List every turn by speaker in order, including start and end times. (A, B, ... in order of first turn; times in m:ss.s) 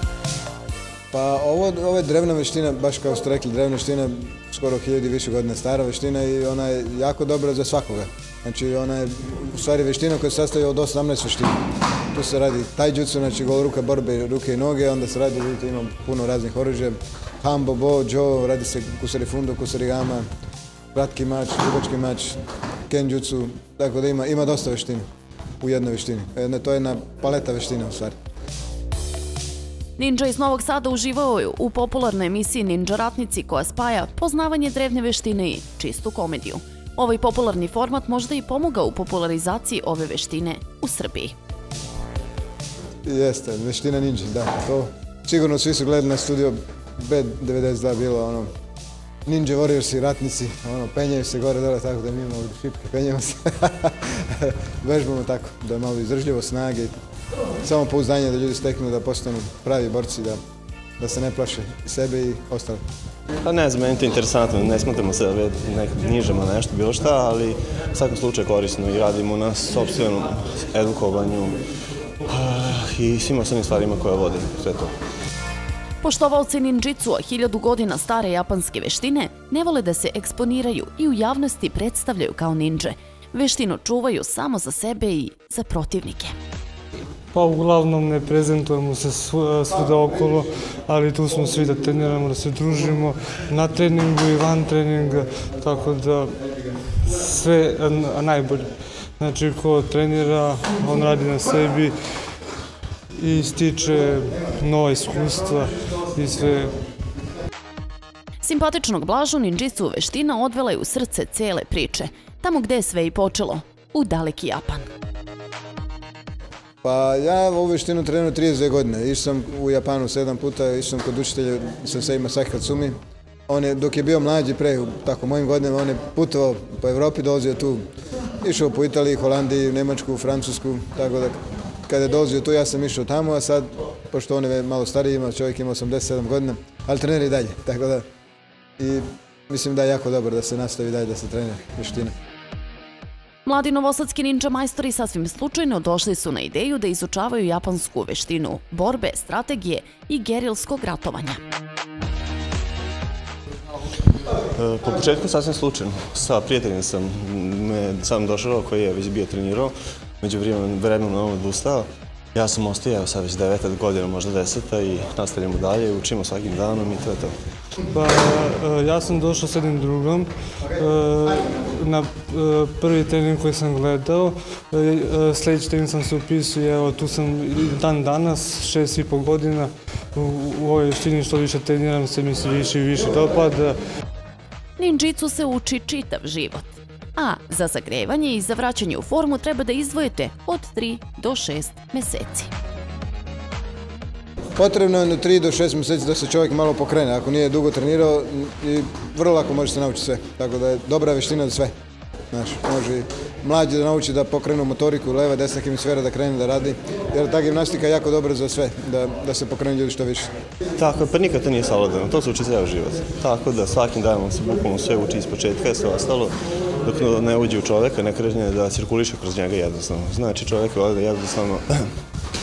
0:01.1-0:11.6 A
0:12.1-0:20.3 A
0:20.9-0:22.4 A
0:22.9-0:25.0 A
0:25.6-0:28.1 A
0:30.0-0:41.4 B
0:43.0-0:48.5 A
0:49.3-0:57.0 A
0:57.6-1:00.4 A
1:01.0-1:02.8 A
1:03.4-1:11.6 C
1:12.3-1:14.9 C
1:16.0-1:26.3 B
1:27.3-1:36.4 D
1:37.0-1:41.9 D
1:43.1-1:46.8 D
1:48.4-1:54.8 B
1:56.8-2:02.9 A
2:03.5-2:07.8 A
2:08.4-2:18.0 A
2:18.8-2:22.1 A
2:23.4-2:31.4 B
2:34.5-2:47.3 C
2:47.9-3:03.8 D
3:04.8-3:12.5 B
3:14.6-3:21.7 A
3:22.3-3:30.3 A
3:30.8-3:41.9 C